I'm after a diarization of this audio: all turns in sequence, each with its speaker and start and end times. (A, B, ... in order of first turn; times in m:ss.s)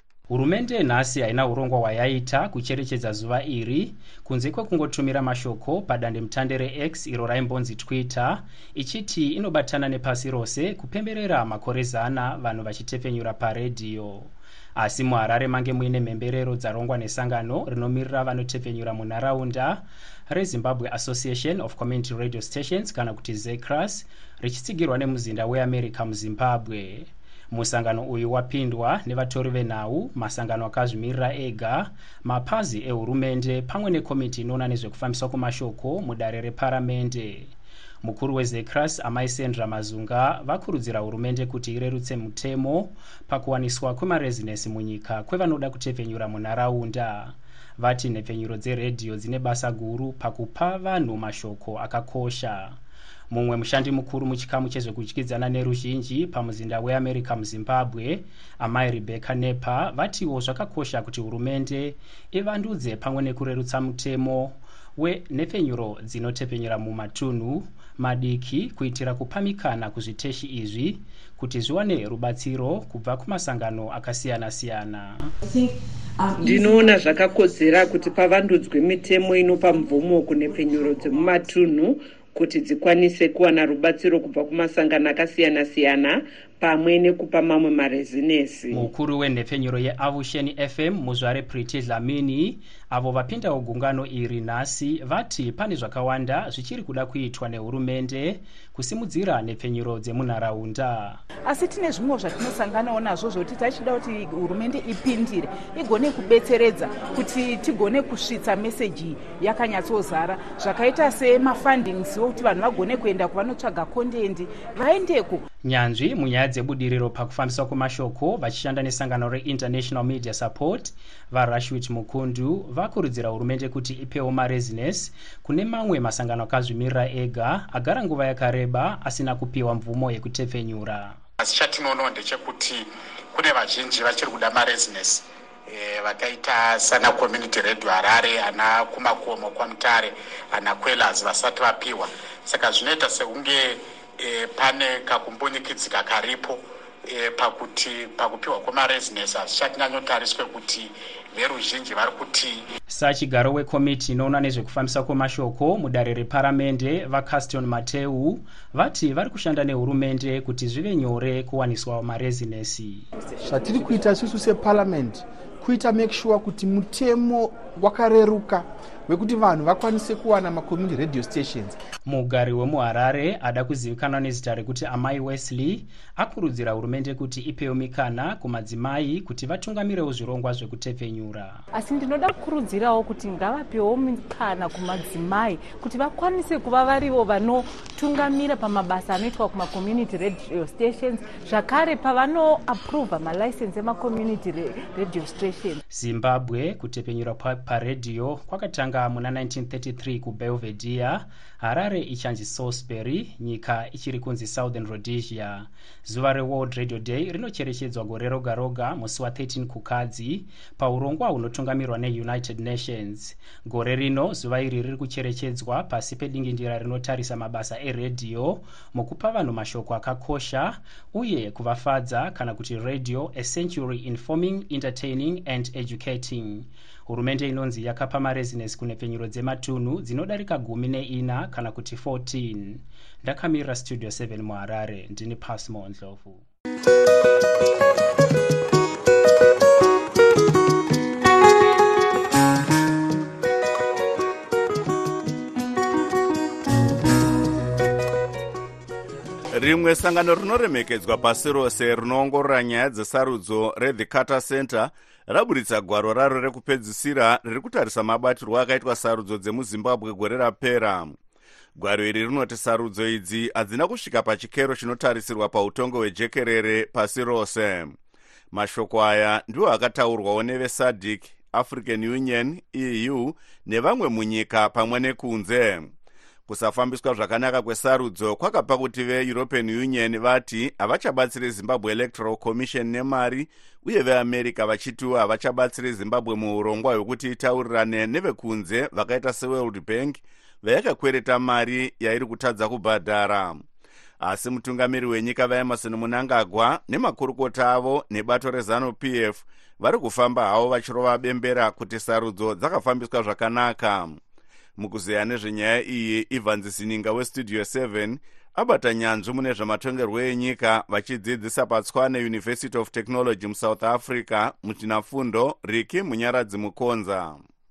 0:00.3-0:52.8 A
0:53.3-1:15.2 A
1:16.4-1:28.9 B
1:28.7-1:41.2 A
1:41.4-1:55.4 C
1:55.6-2:11.2 A
2:11.4-2:32.6 D
2:32.9-2:43.1 A
2:43.4-2:51.8 E
2:52.0-3:01.6 A
3:01.7-3:15.8 F
3:15.9-3:56.4 A
4:09.5-4:21.2 G
4:21.8-4:27.9 G
4:28.5-4:35.9 G
4:36.5-4:53.6 G
4:54.2-5:04.2 G
5:04.8-5:17.4 G